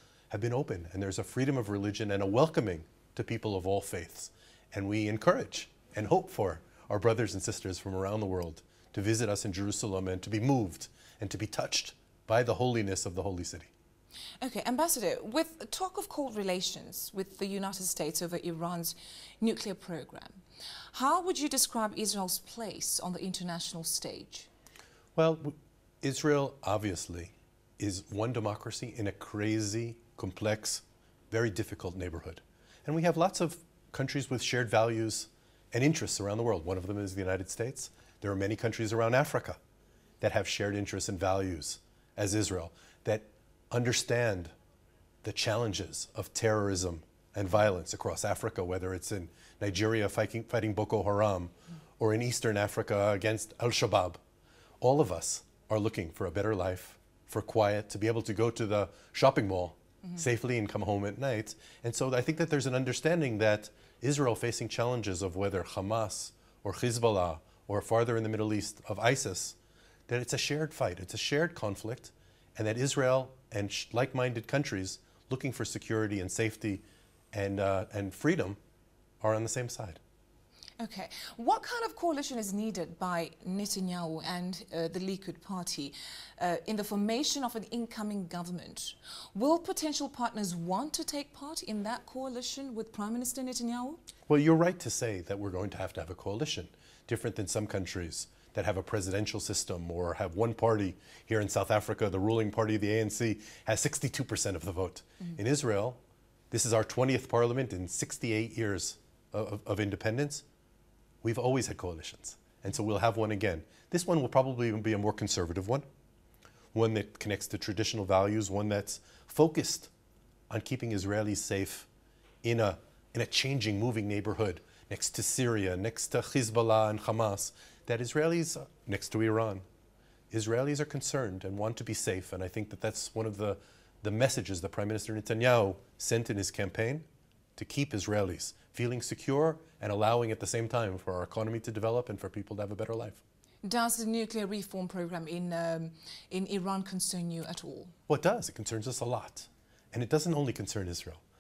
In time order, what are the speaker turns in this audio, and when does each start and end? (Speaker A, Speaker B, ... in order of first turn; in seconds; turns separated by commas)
Speaker A: 0.3-13.7, Speaker B: 14.4-20.4, Speaker B: 20.9-24.5, Speaker A: 25.2-39.6, Speaker A: 40.2-44.5, Speaker A: 45.2-54.2, Speaker A: 54.8-69.6, Speaker A: 70.1-78.6, Speaker A: 79.2-80.0, Speaker B: 80.8-94.0, Speaker A: 94.3-106.0, Speaker A: 106.5-110.4, Speaker A: 111.2-115.9, Speaker A: 116.7-119.9, Speaker A: 120.5-121.9, Speaker A: 122.4-129.7, Speaker A: 130.3-137.1, Speaker A: 137.6-143.2, Speaker B: 143.6-147.9, Speaker A: 148.1-151.2